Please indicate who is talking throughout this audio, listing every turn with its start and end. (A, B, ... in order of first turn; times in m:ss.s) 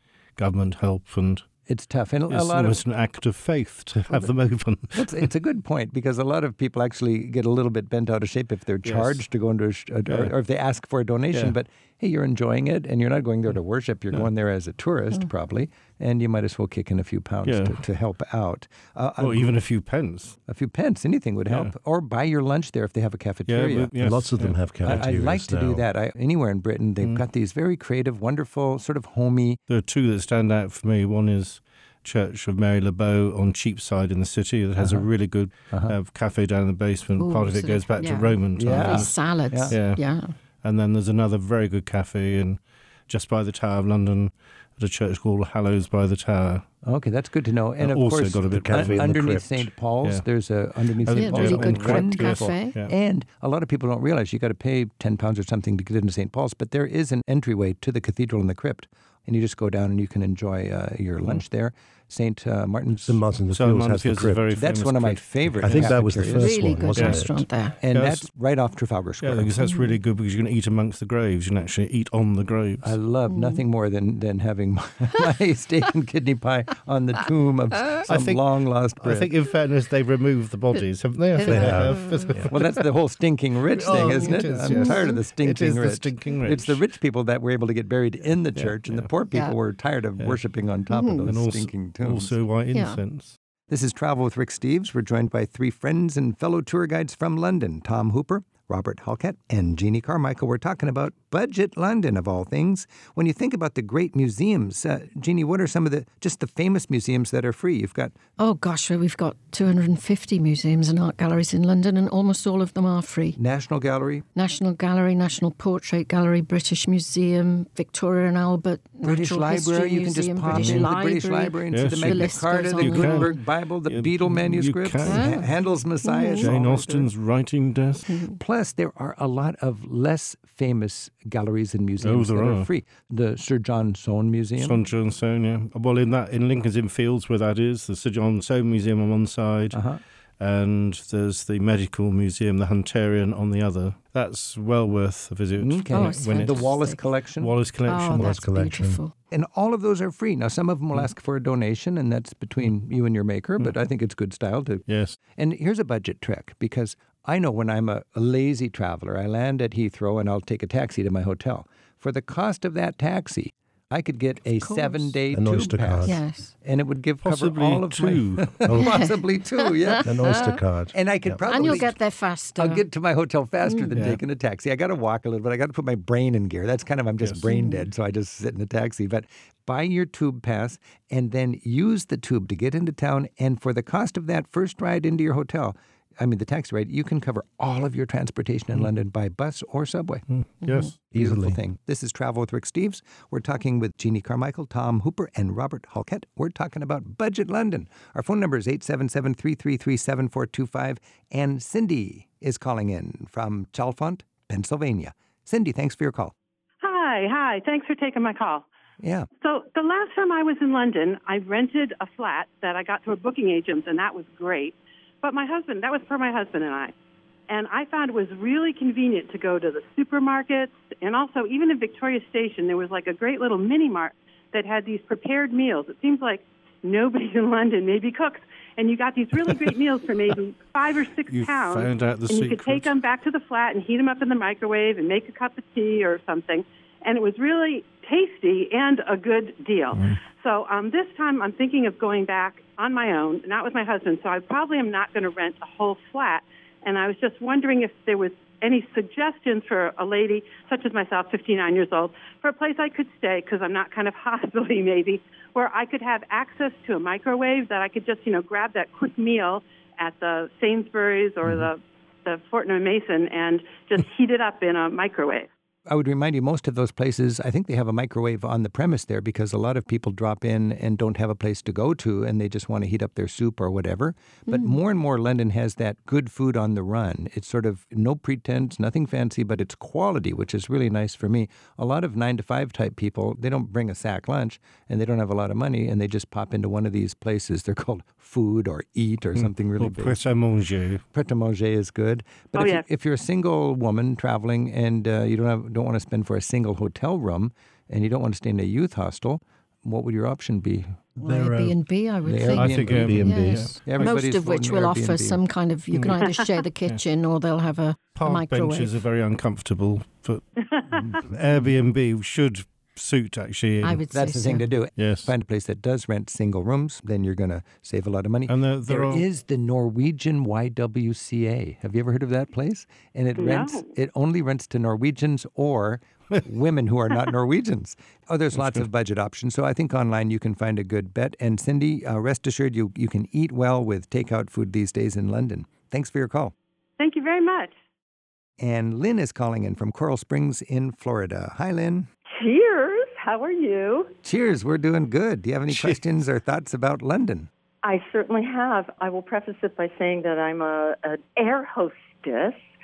0:00.4-0:01.5 A
0:01.6-0:02.8 B
0:02.3-0:05.3 A
0:05.0-0:19.6 B
0:08.8-0:09.3 A
0:10.1-0:10.4 A
0:11.3-0:11.6 A
0:17.4-0:17.9 A
0:19.2-0:20.4 A
0:20.4-0:24.0 B
0:21.5-0:21.8 A
0:23.5-0:25.2 A
0:24.0-0:25.9 C
0:24.8-0:29.6 B
0:29.7-0:40.0 A
0:34.8-0:35.1 B
0:35.7-0:36.0 B
0:37.2-0:40.4 D
0:38.6-0:39.8 B
0:40.6-0:46.6 A
0:46.8-1:03.2 B
0:47.8-0:49.1 A
0:48.5-0:49.7 C
0:50.0-0:52.9 A
0:51.0-0:52.8 D
1:03.1-1:04.5 C
1:03.5-1:06.4 A
1:04.5-1:06.6 B
1:05.6-1:07.5 C
1:06.4-1:07.8 D
1:07.0-1:07.2 A
1:07.8-1:09.6 B
1:07.9-1:08.3 A
1:09.2-1:13.0 A
1:09.6-1:10.0 D
1:12.8-1:19.3 B
1:13.3-1:13.6 D
1:18.0-1:22.9 A
1:21.4-1:22.3 D
1:21.4-1:22.5 C
1:22.4-1:32.4 B
1:23.6-1:26.9 A
1:23.8-1:25.2 D
1:28.3-1:29.1 A
1:29.3-1:29.6 D
1:30.9-1:31.3 D
1:31.2-1:33.4 A
1:32.7-1:33.0 D
1:33.7-1:48.2 B
1:48.4-1:53.4 D
1:53.4-1:54.3 B
1:54.4-2:03.4 D
1:59.0-2:07.1 B
2:00.5-2:00.8 A
2:01.7-2:05.4 A
2:05.0-2:06.6 D
2:06.3-2:08.2 A
2:08.1-2:08.4 D
2:08.3-2:14.8 B
2:12.0-2:12.7 A
2:14.6-2:19.8 A
2:19.7-2:20.0 B
2:20.4-2:26.7 A
2:25.6-2:27.6 B
2:25.9-2:27.0 D
2:27.4-2:28.3 A
2:27.8-2:29.1 D
2:28.0-2:29.0 C
2:29.3-3:10.2 B
2:34.9-2:35.2 A
2:44.5-2:45.2 D
2:45.3-2:46.2 C
2:46.0-2:46.5 D
2:47.2-2:48.6 A
2:48.7-2:50.6 D
2:50.0-2:51.8 C
2:51.4-2:52.8 D
2:53.6-2:54.2 D
2:53.9-2:54.2 A
2:57.2-2:57.5 A
2:57.4-2:57.9 D
3:10.3-3:11.0 A
3:10.6-3:10.9 D
3:11.1-3:26.3 B
3:11.1-3:11.6 C
3:26.8-3:28.7 E
3:29.0-3:29.3 B
3:29.4-3:36.9 E
3:37.5-4:25.5 E
3:51.3-3:53.0 A
4:25.9-4:50.2 B
4:49.4-4:51.0 A
4:51.1-5:01.1 B
4:52.6-4:52.8 E
5:01.2-5:01.8 C
5:01.2-5:09.0 D
5:02.2-5:02.8 B
5:02.5-5:03.8 A
5:02.6-5:03.7 C
5:03.8-5:05.4 B
5:08.2-5:10.4 A
5:10.6-5:11.2 E
5:11.1-5:14.0 A
5:13.8-5:14.7 D
5:14.1-5:36.5 B
5:15.0-5:15.3 A
5:18.5-5:19.3 A
5:23.4-5:23.9 E
5:28.5-5:28.9 A
5:37.0-5:37.7 E
5:38.6-5:42.1 B
5:42.4-5:44.1 F
5:44.2-5:47.5 B
5:45.7-5:46.0 A
5:47.8-5:52.6 F